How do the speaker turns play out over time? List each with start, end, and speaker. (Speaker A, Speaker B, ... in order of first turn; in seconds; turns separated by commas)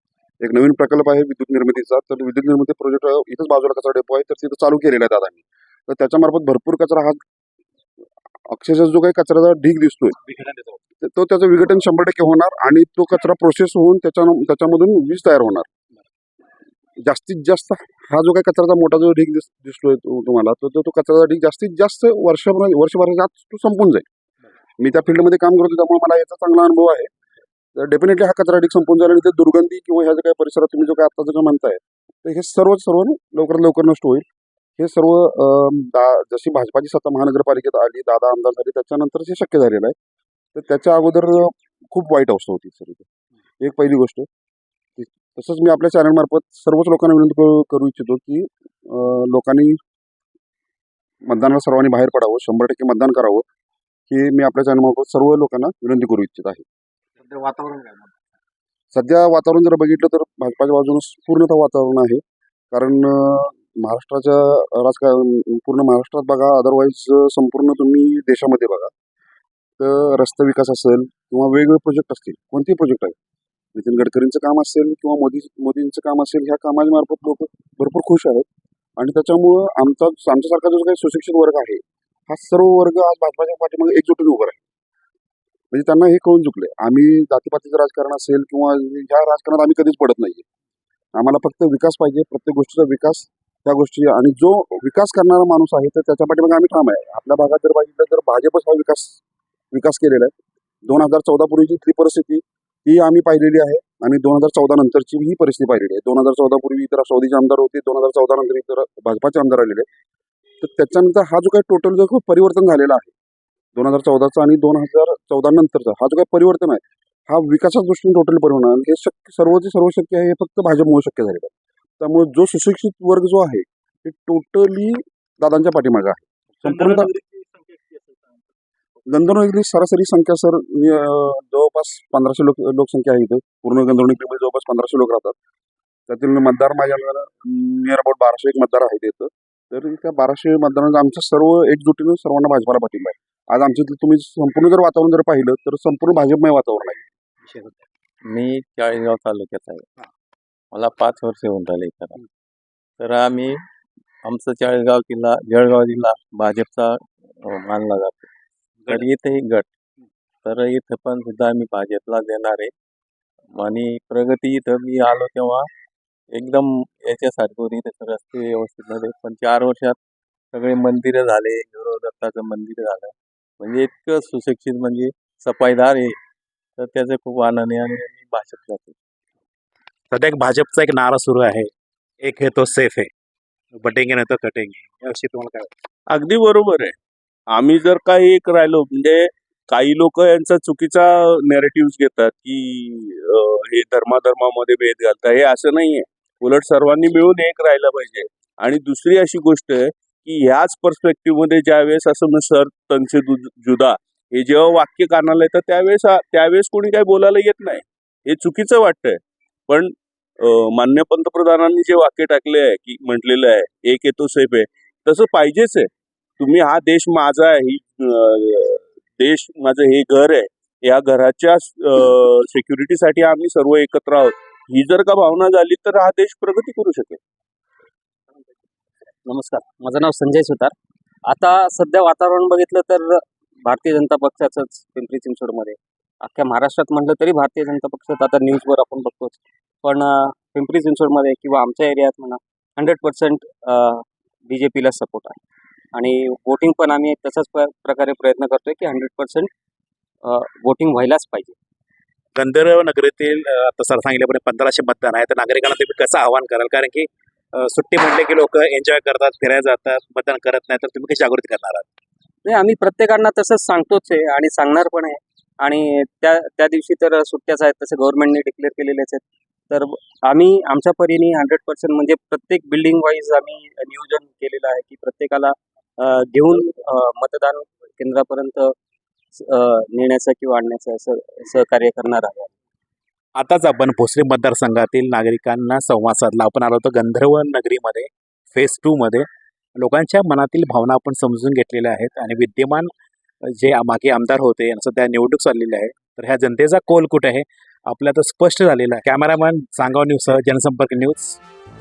Speaker A: 0.4-7.2, Speaker A: 8.4-10.2, Speaker B: 10.2-10.8, Speaker A: 11.0-15.7, Speaker A: 17.0-24.1, Speaker A: 24.8-27.1, Speaker A: 27.7-34.3, Speaker A: 34.8-39.9, Speaker A: 40.5-43.0, Speaker A: 43.6-44.3, Speaker A: 45.0-49.8, Speaker A: 51.3-53.5, Speaker A: 54.1-56.6, Speaker B: 57.2-58.1, Speaker A: 58.9-68.9, Speaker A: 69.8-73.2, Speaker A: 73.7-78.4, Speaker A: 79.0-84.6, Speaker A: 85.7-90.4, Speaker A: 91.1-99.2, Speaker A: 99.7-100.3, Speaker A: 100.8-109.9, Speaker A: 110.6-113.1, Speaker A: 113.8-127.1, Speaker A: 129.1-135.3, Speaker A: 136.1-147.0, Speaker B: 147.5-147.7, Speaker C: 148.2-149.9, Speaker C: 150.7-152.2, Speaker C: 153.0-153.6, Speaker C: 154.2-158.3, Speaker C: 158.9-159.8, Speaker C: 160.4-162.7, Speaker C: 163.5-165.7, Speaker C: 166.3-170.0, Speaker C: 170.5-176.2, Speaker C: 176.8-178.9, Speaker B: 180.1-181.7, Speaker B: 182.2-183.1, Speaker B: 183.7-185.7, Speaker D: 186.1-186.9, Speaker D: 187.5-215.9, Speaker D: 216.4-227.2, Speaker E: 229.2-230.7, Speaker E: 231.2-245.4, Speaker E: 245.9-249.5, Speaker E: 250.2-251.6, Speaker B: 252.3-261.8, Speaker E: 262.4-278.7, Speaker E: 279.3-282.5, Speaker B: 283.4-292.9, Speaker B: 293.4-301.4